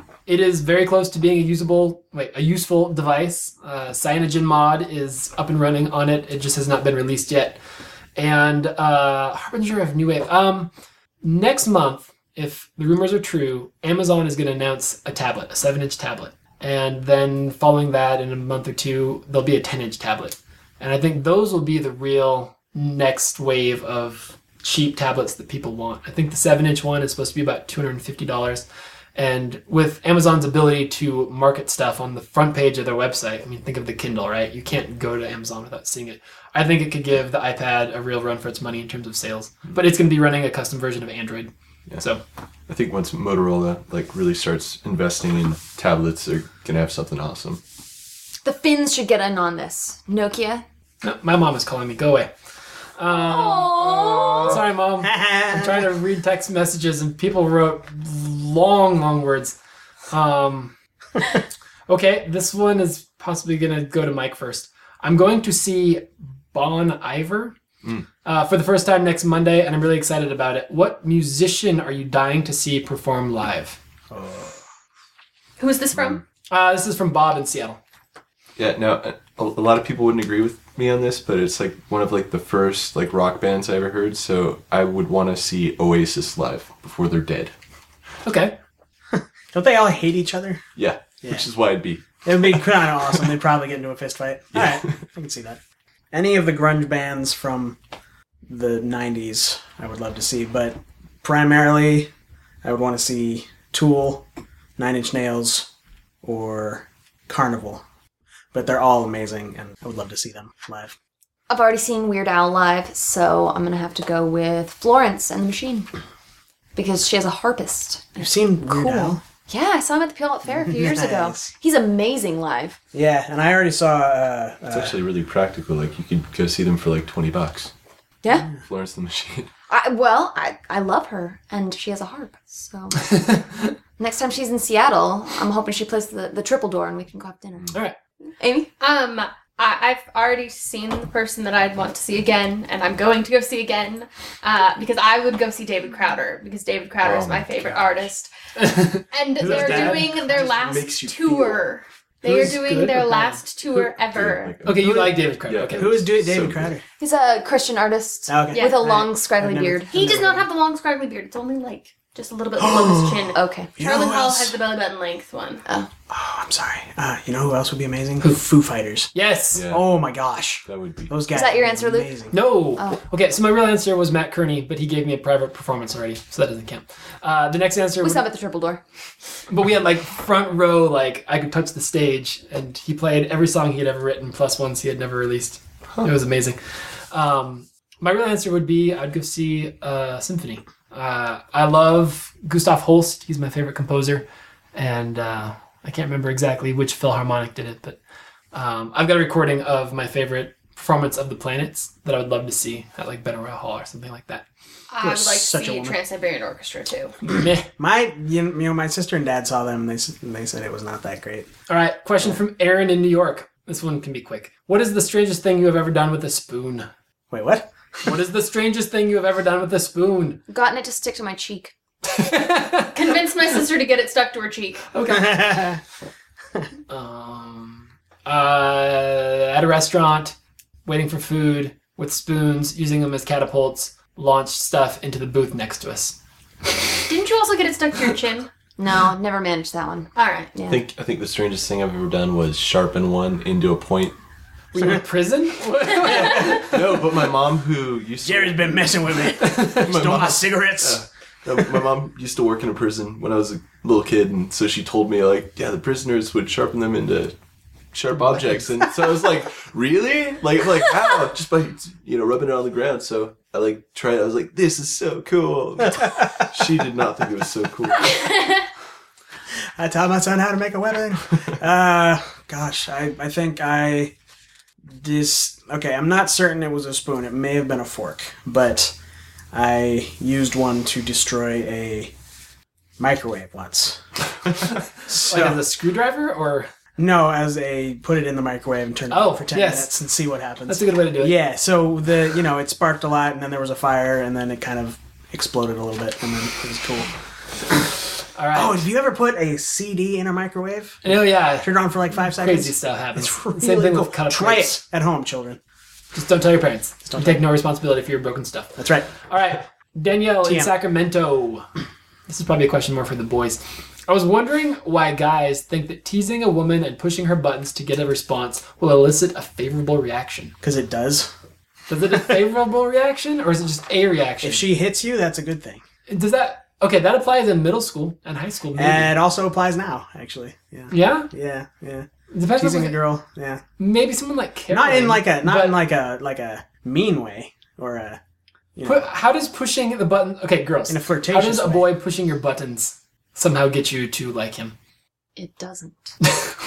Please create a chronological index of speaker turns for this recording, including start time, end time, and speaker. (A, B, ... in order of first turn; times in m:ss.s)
0:00.2-0:07.6 A
0:08.2-0:10.7 A
0:11.2-0:28.6 A
0:29.2-0:42.2 A
0:42.7-0:47.6 B
0:48.4-0:50.6 C
0:51.0-0:52.3 A
0:53.0-0:59.6 A
0:53.1-0:54.6 C
0:55.0-0:55.8 D
1:00.1-1:00.7 A
1:01.9-1:07.6 A
1:08.2-1:13.8 A
1:14.1-1:14.6 D
1:15.6-1:16.2 E
1:16.5-1:17.8 A
1:18.6-1:27.5 B
1:28.2-1:28.5 A
1:29.1-1:30.6 D
1:30.8-1:32.0 B
1:32.2-1:35.6 D
1:34.5-1:34.9 B
1:36.1-1:37.8 D
1:38.5-1:42.1 D
1:42.6-1:44.2 D
1:44.8-1:45.7 D
1:46.2-1:47.8 D
1:48.5-1:50.9 D
1:51.5-1:55.9 C
1:56.7-2:02.8 C
1:58.2-1:59.2 D
2:00.4-2:01.5 D
2:02.9-2:05.0 D
2:04.7-2:07.7 B
2:08.2-2:08.5 C
2:08.6-2:09.5 B
2:09.7-2:13.4 C
2:14.0-2:17.7 C
2:18.4-2:18.7 C
2:18.8-2:28.3 E
2:27.0-2:27.9 B
2:28.6-2:30.4 A
2:29.0-2:34.6 E
2:29.4-2:31.7 B
2:32.2-2:33.4 A
2:33.8-2:36.7 B
2:34.6-2:36.0 A
2:34.8-2:35.2 D
2:35.8-2:36.8 D
2:37.0-2:40.0 C
2:38.3-2:40.5 D
2:38.5-2:39.0 E
2:39.9-2:45.6 E
2:42.6-2:44.5 D
2:43.3-2:43.8 C
2:46.1-2:49.1 D
2:49.1-2:49.6 A
2:49.5-2:49.8 B
2:49.7-2:52.3 D
2:50.6-2:51.1 B
2:51.3-2:52.1 C
2:52.3-2:58.2 A
2:58.0-2:58.8 C
2:59.5-3:06.6 A
3:07.1-3:18.0 A
3:18.5-3:24.4 A
3:24.9-3:27.2 E
3:25.0-3:26.0 D
3:27.2-3:27.7 A
3:27.8-3:31.5 D
3:31.7-3:36.9 A
3:37.3-3:38.1 D
3:38.0-3:40.4 A
3:40.5-3:41.7 C
3:42.0-3:43.2 A
3:42.9-3:44.9 E
3:44.9-3:45.7 A
3:45.1-3:45.8 D
3:46.9-3:50.3 A
3:50.8-3:56.2 A
3:57.1-3:58.5 E
3:58.8-4:00.8 C
4:00.2-4:00.6 E
4:00.7-4:04.1 B
4:04.7-4:06.7 A
4:06.0-4:06.6 D
4:06.3-4:09.0 B
4:08.2-4:11.0 D
4:09.4-4:09.9 A
4:09.7-4:17.3 B
4:17.9-4:28.2 B
4:28.1-4:28.6 E
4:29.8-4:34.1 D
4:34.9-4:38.9 D
4:39.5-4:42.1 D
4:43.0-4:44.0 D
4:45.1-4:45.6 D
4:45.1-4:46.7 A
4:47.0-4:57.1 D
4:49.1-4:49.9 A
4:50.7-4:51.4 A
4:58.4-4:58.8 A
4:58.5-5:05.6 D
5:01.0-5:01.7 A
5:02.4-5:04.8 A
5:06.1-5:11.7 A
5:07.1-5:07.4 D
5:08.8-5:09.1 D
5:10.4-5:10.7 D
5:12.3-5:20.5 A
5:20.6-5:21.3 D
5:21.9-5:24.7 A
5:24.4-5:25.8 D
5:26.1-5:29.1 A
5:28.8-5:33.6 D
5:30.9-5:31.3 A
5:32.3-5:33.0 A
5:33.8-5:35.8 A
5:34.7-5:38.2 D
5:38.8-5:39.1 D
5:38.8-5:44.7 A
5:40.9-5:41.9 D
5:45.4-5:46.2 C
5:46.2-5:46.5 A